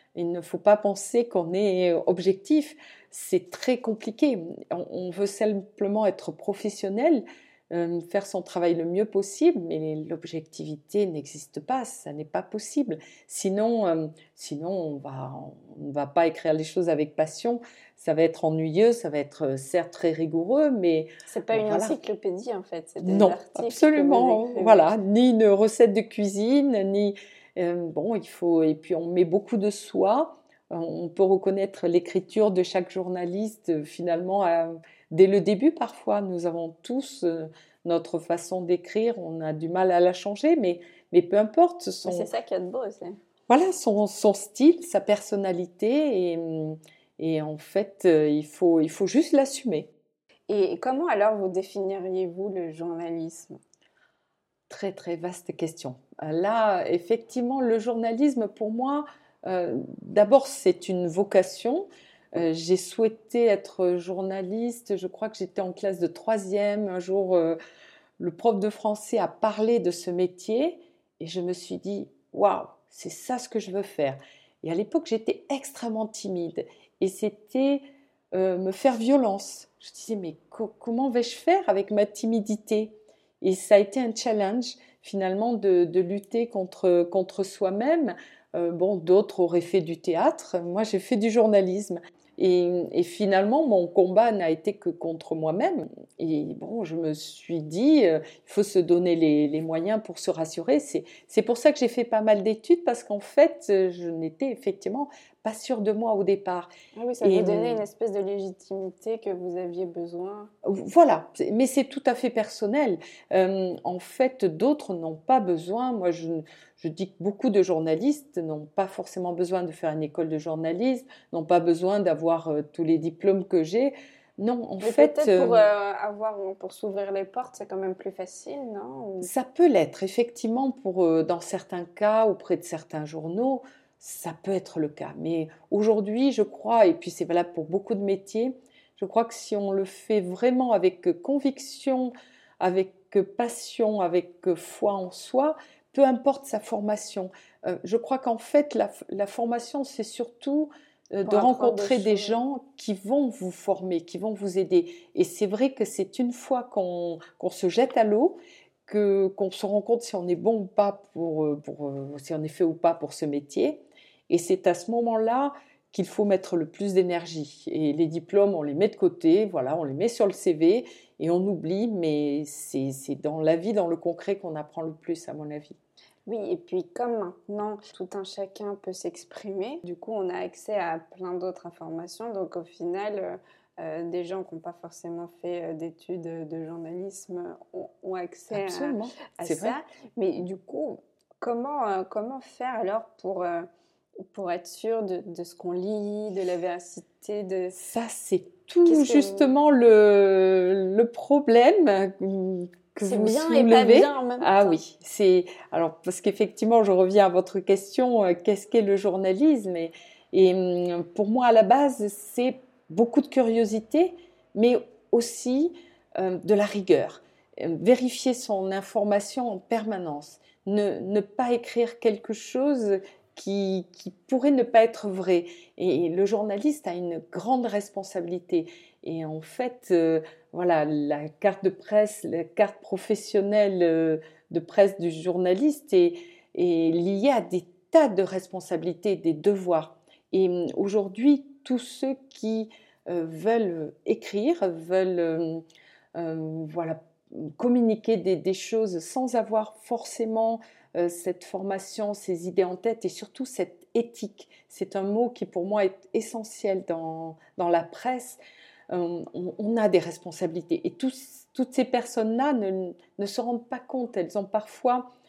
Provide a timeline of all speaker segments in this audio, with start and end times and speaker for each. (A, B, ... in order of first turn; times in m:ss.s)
0:00.2-0:22.0 A
0:21.3-0:24.9 B
0:23.0-0:42.3 A
0:42.0-0:43.2 B
0:43.5-0:49.9 A
0:50.5-0:53.6 B
0:54.7-1:07.6 A
1:08.2-1:46.7 A
1:47.0-1:50.5 B
1:47.2-1:47.8 A
1:50.6-2:05.6 A
2:04.8-2:09.3 B
2:09.2-2:55.8 A
2:31.2-2:32.4 B
2:56.3-3:13.7 B
3:08.5-3:09.8 A
3:14.3-3:17.8 B
3:17.7-4:05.6 A
3:18.9-3:19.5 B
3:23.0-3:24.8 B
4:06.2-4:18.4 A
4:18.9-4:25.1 A